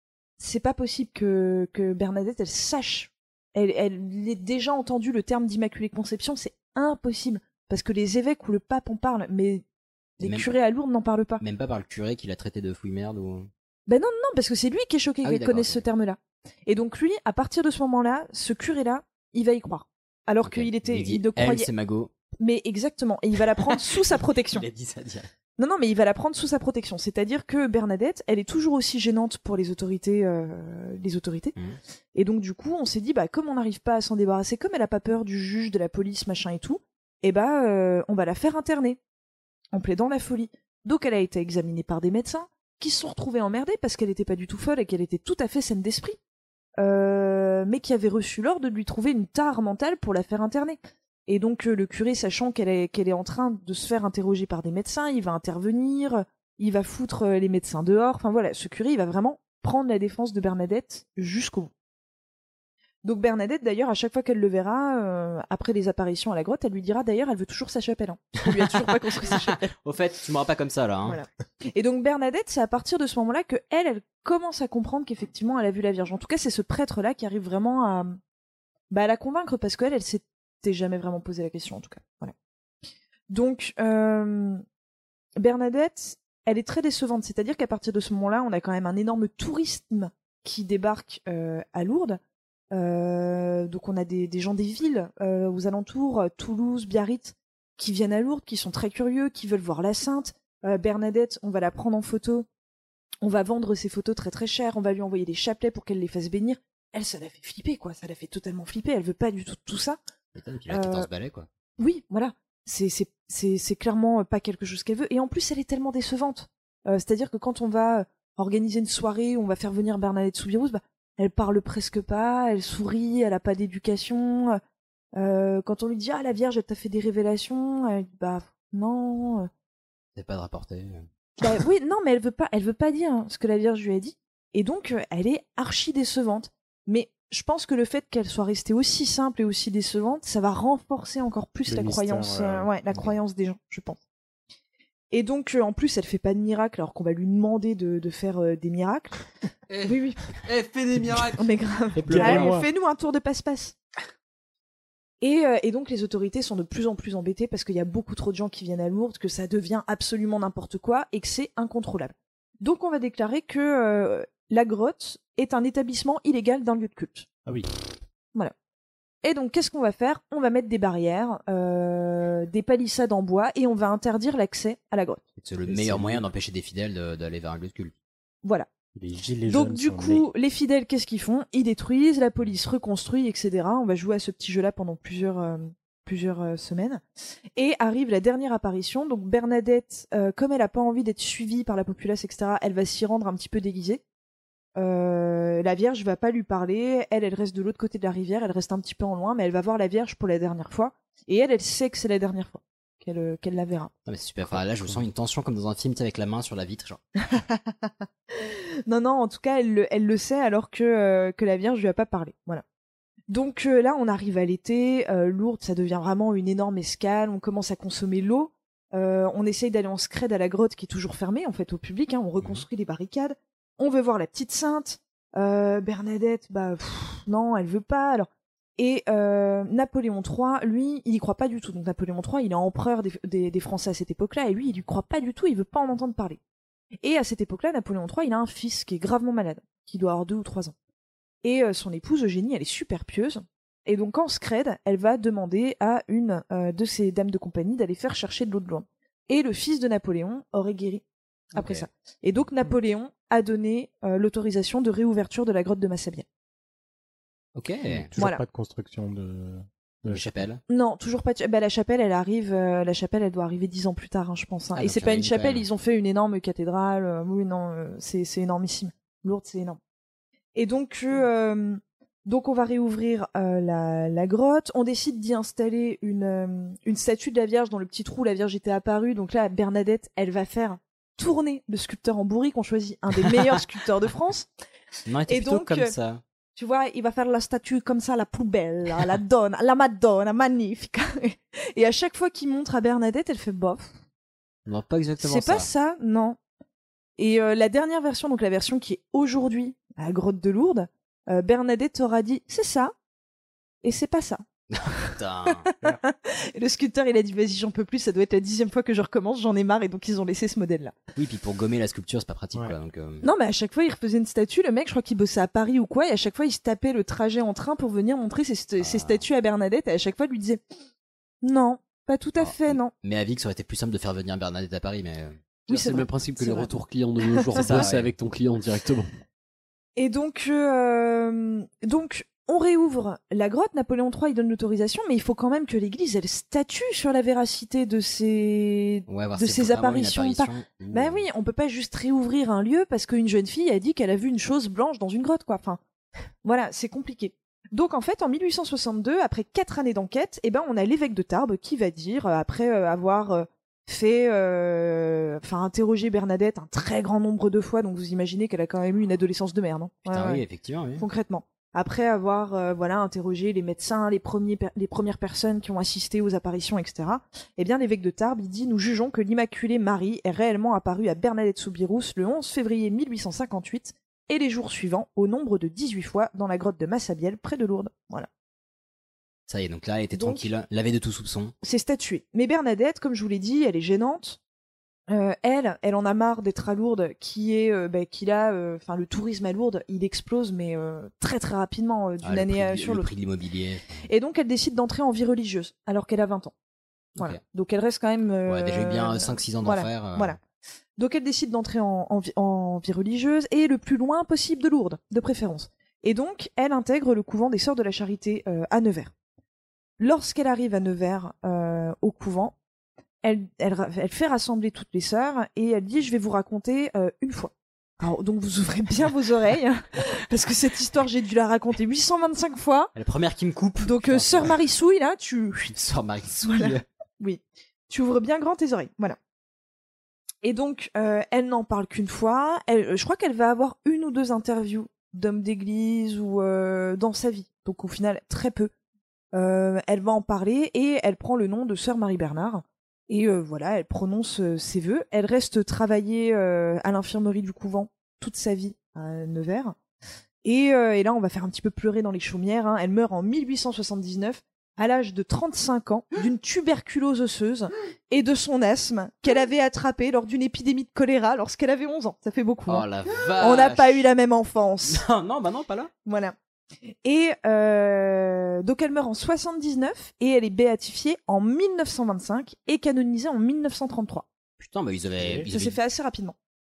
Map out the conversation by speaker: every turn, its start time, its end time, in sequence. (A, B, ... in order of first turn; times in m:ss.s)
0:00.4-0:09.6 A
0:10.2-0:11.4 A
0:10.2-0:10.5 B
0:11.4-0:13.5 B
0:13.9-0:21.7 A
0:15.2-0:15.8 B
0:20.4-0:22.1 B
0:22.4-0:24.6 A
0:24.5-0:25.3 B
0:25.6-0:31.5 A
0:32.1-0:39.0 A
0:39.7-0:46.2 A
0:46.8-1:01.7 A
1:03.0-1:09.7 A
1:08.4-1:11.2 B
1:11.0-1:18.2 A
1:18.9-1:22.3 A
1:23.3-1:24.6 A
1:25.4-1:32.2 A
1:32.7-1:42.4 A
1:43.2-1:50.0 A
1:50.3-1:51.5 B
1:50.7-1:51.1 A
1:51.8-2:04.6 A
2:05.1-2:09.5 A
2:10.2-2:11.1 B
2:11.4-2:24.0 A
2:21.6-2:22.7 C
2:25.1-2:29.2 A
2:29.8-2:30.3 A
2:30.5-2:31.4 D
2:31.2-2:33.7 A
2:32.0-2:32.7 C
2:35.2-2:47.3 A
2:49.2-2:55.2 A
2:55.4-2:57.9 B
2:55.6-2:56.2 C
2:58.9-3:00.2 C
2:59.4-3:07.0 A
3:07.6-3:14.0 A
3:14.8-3:23.9 A
3:24.0-3:27.0 B
3:24.5-3:25.0 C
3:27.3-3:32.6 A
3:33.3-3:56.4 A
3:57.0-4:00.7 A
4:01.4-4:11.0 A
4:11.5-4:11.8 B
4:11.5-4:16.2 A
4:17.5-4:18.1 B
4:17.9-4:20.3 C
4:18.2-4:18.4 A
4:20.1-4:20.6 B
4:20.7-4:29.8 A
4:24.7-4:25.6 B
4:30.5-4:44.5 A
4:45.1-4:46.2 B
4:45.3-4:45.9 A
4:46.6-4:53.9 A
4:54.6-4:55.7 B
4:55.2-4:56.4 A
4:57.2-5:02.9 A
5:03.8-5:04.4 A
5:04.7-5:05.7 B
5:05.8-5:10.9 A
5:11.2-5:13.2 B
5:13.2-5:20.6 A
5:18.8-5:19.2 B
5:21.4-5:22.9 A
5:22.4-5:25.4 B
5:25.7-5:26.7 A
5:25.7-5:29.1 D
5:27.2-5:27.7 A
5:27.5-5:28.1 B
5:30.0-5:45.8 A
5:39.1-5:41.2 B
5:46.4-6:00.4 A
6:00.1-6:01.0 B
6:01.0-6:18.3 A
6:19.5-6:21.5 B
6:20.1-6:20.5 A
6:21.6-6:24.4 A
6:25.1-6:33.1 A
6:32.2-6:34.1 B
6:34.0-6:36.5 A
6:37.2-6:40.4 A
6:38.4-6:40.4 B
6:41.0-6:49.1 A
6:50.0-6:52.5 A
6:53.2-7:02.9 A
7:02.9-7:04.6 B
7:03.8-7:05.7 A
7:05.7-7:06.8 B
7:06.4-7:09.2 A
7:10.4-7:18.7 A
7:19.3-7:29.7 A
7:30.4-7:45.0 A
7:42.7-7:44.0 B
7:44.8-7:45.9 B
7:46.0-7:46.3 A
7:47.0-7:54.2 A
7:54.6-7:55.8 B
7:55.2-7:55.5 C
7:55.5-7:56.3 A